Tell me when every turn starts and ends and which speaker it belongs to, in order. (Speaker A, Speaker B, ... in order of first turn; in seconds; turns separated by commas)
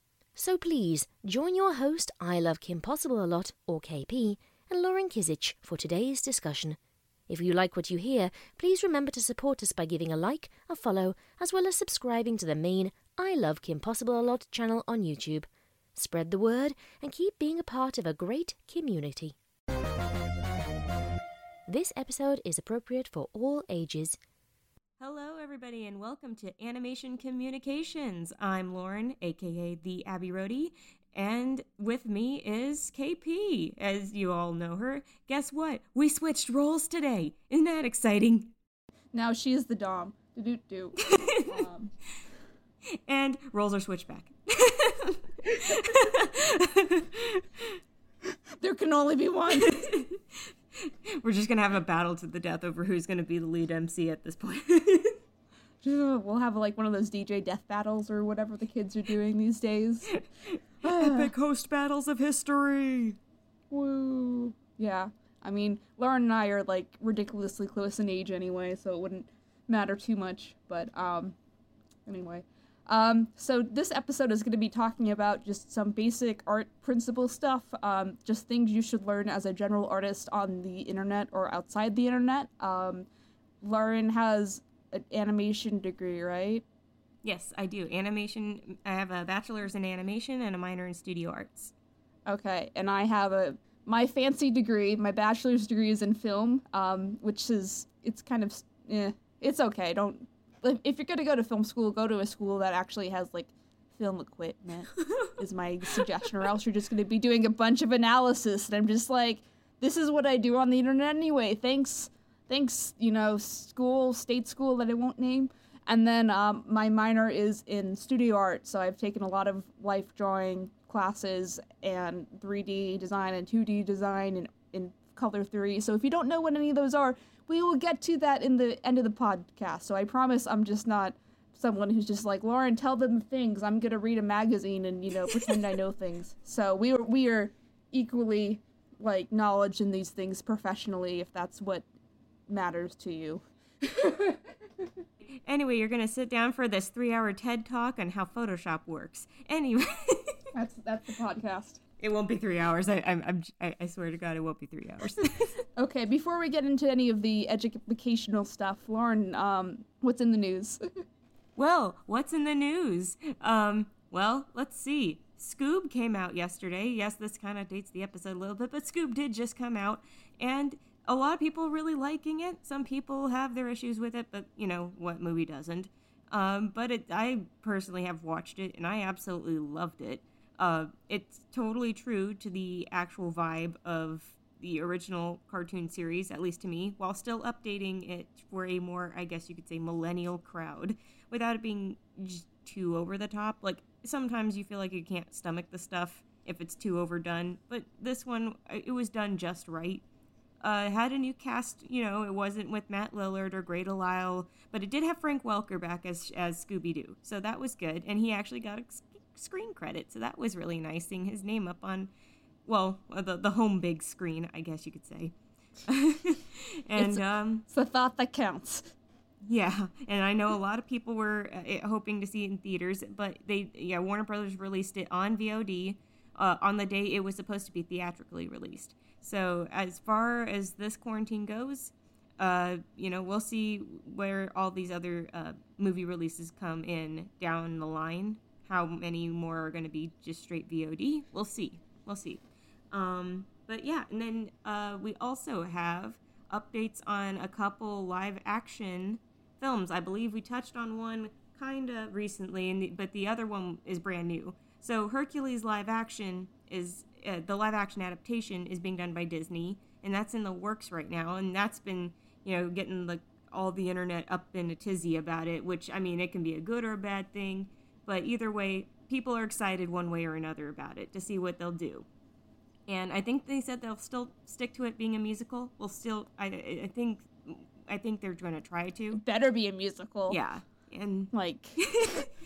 Speaker A: 0.3-19.4, Speaker A: 21.7-24.2, Speaker B: 25.0-38.5, Speaker C: 39.1-41.9, Speaker B: 41.0-41.6, Speaker B: 42.9-47.8, Speaker C: 48.6-49.8, Speaker B: 49.5-55.2, Speaker C: 55.8-60.2, Speaker B: 60.4-63.2, Speaker C: 60.8-61.3, Speaker C: 63.7-71.4, Speaker C: 72.0-83.0, Speaker C: 83.6-86.6, Speaker B: 87.2-91.7, Speaker C: 92.2-141.8, Speaker B: 135.3-135.5, Speaker C: 142.5-144.9, Speaker B: 145.4-150.4, Speaker C: 150.5-151.8, Speaker B: 152.0-155.5, Speaker C: 155.8-160.8, Speaker B: 161.6-200.0, Speaker B: 200.6-212.1, Speaker B: 212.7-215.3, Speaker B: 215.8-217.6, Speaker C: 216.9-218.9, Speaker B: 219.4-272.1, Speaker B: 272.9-279.2, Speaker C: 279.1-280.4, Speaker B: 280.3-282.3, Speaker C: 281.3-281.8